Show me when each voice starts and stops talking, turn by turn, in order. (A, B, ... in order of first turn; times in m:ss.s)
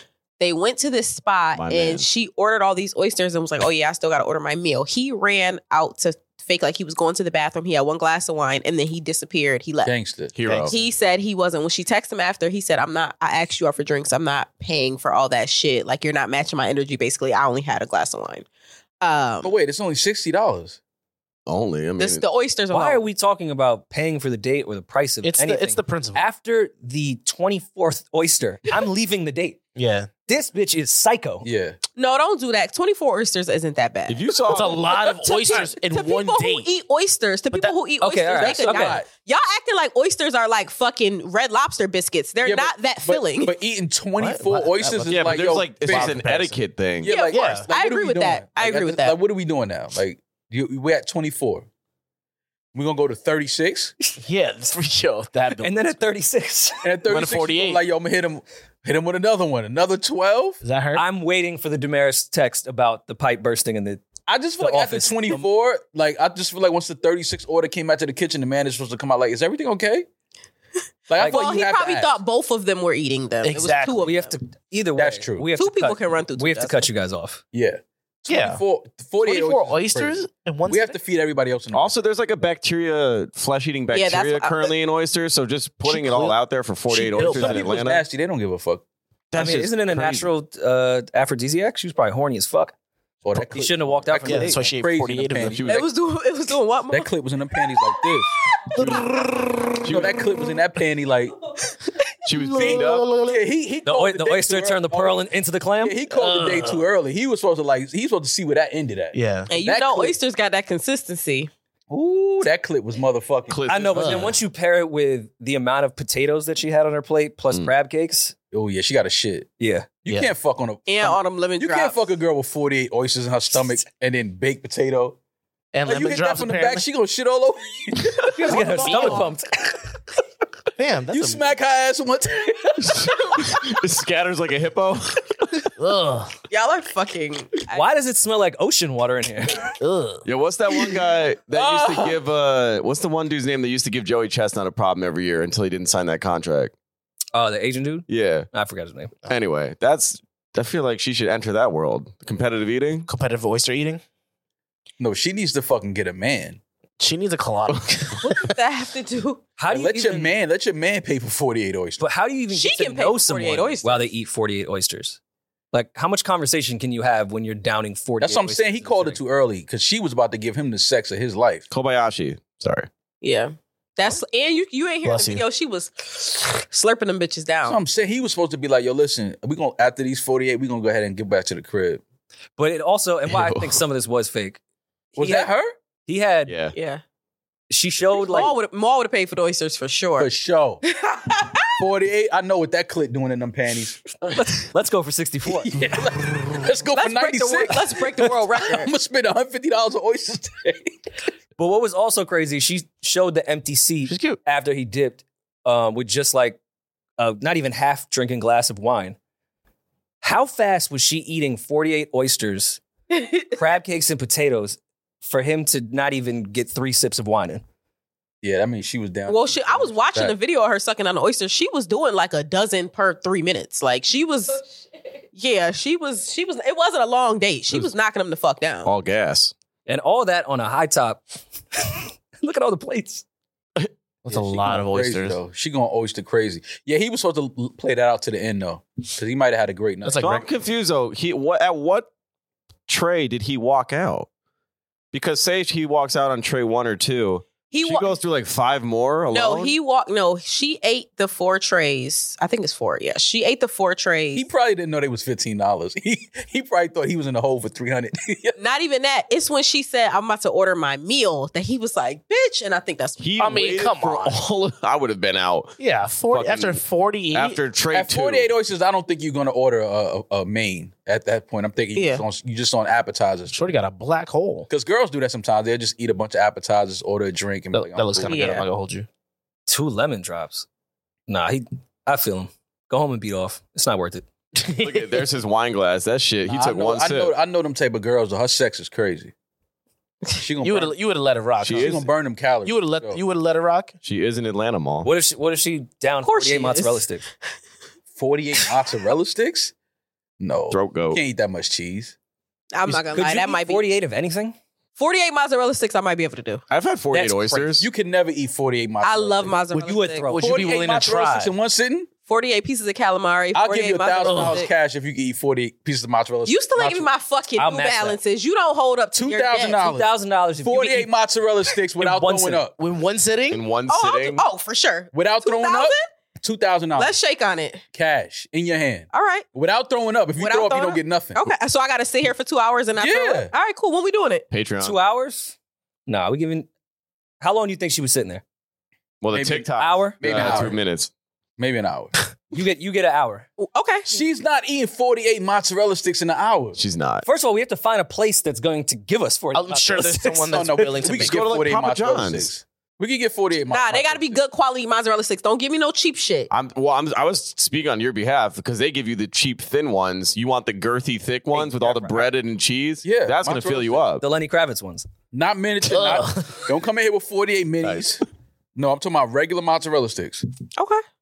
0:00.4-0:09.9 A
0:01.6-0:02.0 B
0:09.8-0:10.3 C
0:10.3-0:10.8 B
0:10.6-0:18.4 A
0:19.0-0:19.5 A
0:19.4-0:20.8 C
0:21.4-0:22.2 B
0:22.0-0:23.0 A
0:22.7-0:29.6 D
0:25.2-0:26.2 E
0:29.7-0:30.1 E
0:30.3-0:31.4 D
0:31.4-0:31.8 C
0:32.0-0:34.3 A
0:34.1-0:35.0 B
0:34.5-0:36.7 E
0:35.1-0:43.5 A
0:37.5-0:37.8 E
0:38.0-0:39.0 D
0:38.4-0:39.1 C
0:42.4-0:46.2 C
0:44.2-0:46.6 E
0:45.1-0:47.1 B
0:47.0-0:51.7 C
0:47.0-0:49.2 A
0:47.3-0:47.7 E
0:52.7-0:53.9 C
0:54.2-0:55.7 E
0:55.6-0:56.8 D
0:56.8-1:00.6 C
0:57.1-0:57.8 E
1:00.6-1:01.0 E
1:00.9-1:04.0 D
1:04.3-1:10.1 C
1:04.6-1:05.4 D
1:11.1-1:12.2 C
1:11.2-1:11.4 D
1:11.2-1:14.3 A
1:13.4-1:14.1 E
1:14.0-1:17.4 D
1:15.0-1:15.5 C
1:15.6-1:16.9 A
1:17.5-1:21.9 C
1:18.3-1:18.6 E
1:19.2-1:21.0 E
1:21.7-1:28.0 B
1:23.9-1:24.7 A
1:25.9-1:26.4 E
1:26.9-1:27.7 E
1:27.1-1:28.8 C
1:29.3-1:30.3 B
1:29.3-1:32.7 D
1:33.2-1:35.9 C
1:33.5-1:34.6 D
1:34.2-1:35.6 E
1:35.4-1:35.9 B
1:35.7-1:37.1 A
1:36.9-1:38.3 C
1:38.7-1:40.0 E
1:38.8-1:39.0 B
1:39.8-1:40.1 B
1:39.9-1:41.4 C
1:42.2-1:43.1 B
1:42.3-1:43.5 E
1:42.6-1:45.2 C
1:43.9-1:45.9 D
1:45.8-1:50.2 C
1:46.1-1:46.9 E
1:49.1-1:49.5 E
1:49.5-1:51.5 A
1:51.9-1:53.6 C
1:53.5-1:54.3 B
1:53.7-1:58.3 D
1:53.9-1:54.4 E
1:58.5-1:59.5 C
1:59.6-1:59.9 D
2:00.0-2:05.2 C
2:00.1-2:00.3 E
2:00.9-2:02.0 A
2:05.7-2:06.9 E
2:05.8-2:09.1 C
2:08.3-2:09.7 D
2:08.5-2:09.3 E
2:08.9-2:09.2 A
2:10.8-2:11.4 E
2:11.1-2:13.6 C
2:12.9-2:15.6 B
2:15.8-2:16.3 E
2:16.5-2:17.8 A
2:17.7-2:19.7 D
2:19.8-2:20.2 E
2:20.2-2:26.7 B
2:21.5-2:22.2 C
2:27.3-2:29.1 D
2:28.1-2:28.5 B
2:29.3-2:33.1 B
2:33.1-2:34.0 E
2:35.0-2:36.6 C
2:37.0-2:38.5 E
2:38.2-2:39.5 A
2:39.6-2:40.4 D
2:39.7-2:42.0 C
2:42.0-2:45.2 D
2:42.5-2:44.1 A
2:45.7-2:49.2 D
2:48.2-2:51.7 C
2:51.7-2:52.9 B
2:53.2-2:57.8 A
2:55.0-2:55.4 E
2:57.6-3:02.0 C
3:02.6-3:04.6 D
3:03.3-3:03.8 B
3:05.2-3:05.5 D
3:05.2-3:05.7 C
3:06.0-3:06.5 D
3:06.5-3:06.7 B
3:06.7-3:07.0 A
3:07.7-3:08.6 D
3:08.2-3:10.3 A
3:10.2-3:10.8 C
3:10.8-3:11.8 A
3:11.8-3:14.0 C
3:14.3-3:15.7 D
3:15.5-3:21.0 C
3:16.9-3:18.9 A
3:21.6-3:26.6 D
3:24.0-3:24.4 E
3:27.2-3:29.2 D
3:30.2-3:32.8 D
3:33.1-3:33.5 A
3:33.5-3:37.6 D
3:38.4-3:40.4 C
3:39.3-3:44.6 A
3:45.3-3:48.9 A
3:48.8-3:49.5 B
3:49.9-3:51.2 D
3:51.7-3:53.2 D
3:54.2-3:55.4 E
3:54.3-4:00.2 C
4:00.0-4:00.5 E
4:00.2-4:02.1 B
4:02.9-4:04.3 B
4:05.1-4:09.7 B
4:07.7-4:08.2 A
4:09.3-4:14.4 A
4:14.3-4:18.6 C
4:18.6-4:23.2 A
4:23.2-4:25.8 B
4:23.4-4:24.5 E
4:25.8-4:27.6 E
4:26.3-4:26.8 B
4:27.3-4:28.5 B
4:27.9-4:33.7 C
4:31.9-4:32.2 A
4:33.5-4:34.7 E
4:34.7-4:38.6 C
4:37.7-4:39.1 E
4:38.3-4:38.6 A
4:39.7-4:40.6 D
4:41.3-4:44.2 D
4:44.6-4:45.2 E
4:44.8-4:47.4 B
4:46.5-4:49.3 C
4:50.4-4:51.0 C
4:50.6-4:52.1 E
4:51.6-4:52.0 B
4:51.7-4:53.2 C
4:52.6-4:53.9 E
4:54.0-4:55.1 B
4:55.0-4:57.2 D
4:56.2-4:57.0 A
4:58.2-4:59.7 C
5:00.4-5:02.1 C
5:00.7-5:01.2 B
5:02.7-5:03.8 A
5:02.9-5:04.6 D
5:05.0-5:06.6 A
5:06.7-5:07.9 B
5:07.1-5:07.7 D
5:07.8-5:09.6 C
5:09.0-5:10.4 A
5:09.7-5:11.5 E
5:09.8-5:10.7 D
5:10.4-5:12.1 C
5:12.2-5:14.7 A
5:13.5-5:17.1 C
5:14.2-5:14.6 E
5:16.4-5:19.9 A
5:17.6-5:18.2 D
5:19.1-5:20.1 C
5:19.8-5:21.1 D
5:20.6-5:22.7 C
5:22.0-5:22.6 D
5:22.8-5:23.6 E
5:23.5-5:24.4 B
5:23.9-5:26.1 A
5:25.1-5:27.1 C
5:27.0-5:27.8 A
5:27.9-5:31.4 C
5:29.1-5:29.4 A
5:30.4-5:34.4 A
5:33.0-5:33.5 C
5:34.5-5:35.0 B
5:34.8-5:35.5 D
5:36.1-5:36.7 D
5:37.4-5:38.4 D
5:39.2-5:41.1 B
5:39.3-5:39.7 C
5:39.8-5:40.7 D
5:40.2-5:40.8 C
5:41.6-5:42.2 C
5:42.5-5:43.5 D
5:43.6-5:44.2 A
5:44.1-5:46.8 C
5:46.8-5:47.2 B
5:47.2-5:50.5 D
5:49.5-5:51.5 E
5:50.5-5:54.4 C
5:51.2-5:52.5 B
5:53.7-5:56.5 A
5:56.5-6:04.2 B
6:01.5-6:02.2 D
6:03.0-6:04.0 C
6:04.2-6:05.1 D
6:05.3-6:08.2 C
6:05.8-6:06.7 E
6:08.8-6:10.5 C
6:10.8-6:11.0 A